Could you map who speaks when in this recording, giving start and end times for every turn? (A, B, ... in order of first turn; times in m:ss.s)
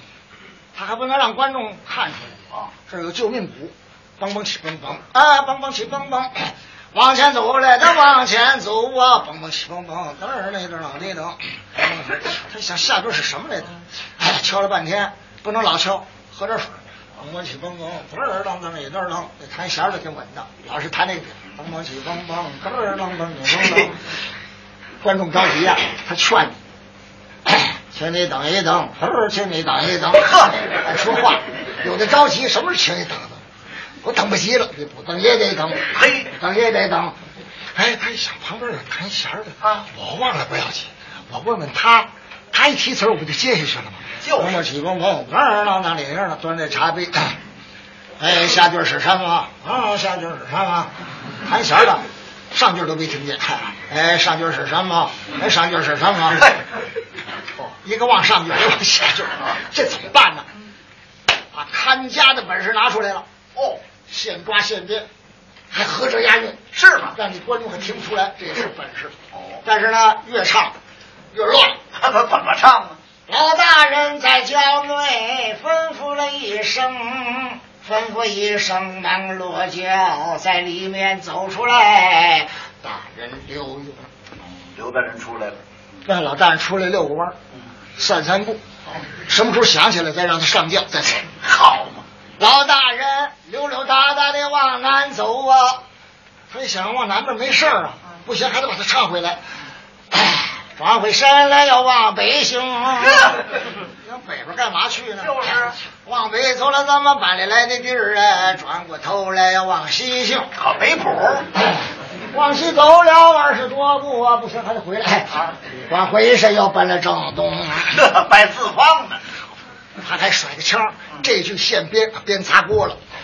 0:00.7-0:24.0 A
0:25.0-0:26.5 A
0:27.5-0:33.4 A
0:30.2-0:30.7 B
0:34.0-0:37.2 A
0:35.9-0:36.3 B
0:37.7-0:47.4 A
0:39.6-0:39.9 B
0:44.2-0:44.6 B
0:48.2-0:56.5 A
0:57.6-1:00.5 A
1:01.5-1:03.2 A
1:03.5-1:03.8 B
1:04.1-1:05.1 A
1:05.7-1:10.8 A
1:06.7-1:07.2 B
1:09.3-1:09.6 B
1:11.3-1:11.8 A
1:12.0-1:13.0 B
1:13.3-1:24.1 A
1:24.7-1:25.6 B
1:26.0-1:27.4 A
1:28.0-1:28.6 A
1:29.2-1:31.3 A
1:31.4-1:32.0 B
1:32.4-1:35.8 A
1:36.5-1:39.4 A
1:40.1-1:43.3 A
1:43.9-1:50.5 A
1:45.2-1:45.7 B
1:50.6-1:51.4 B
1:51.5-1:57.9 A
1:57.9-1:59.2 B
2:00.0-2:03.0 A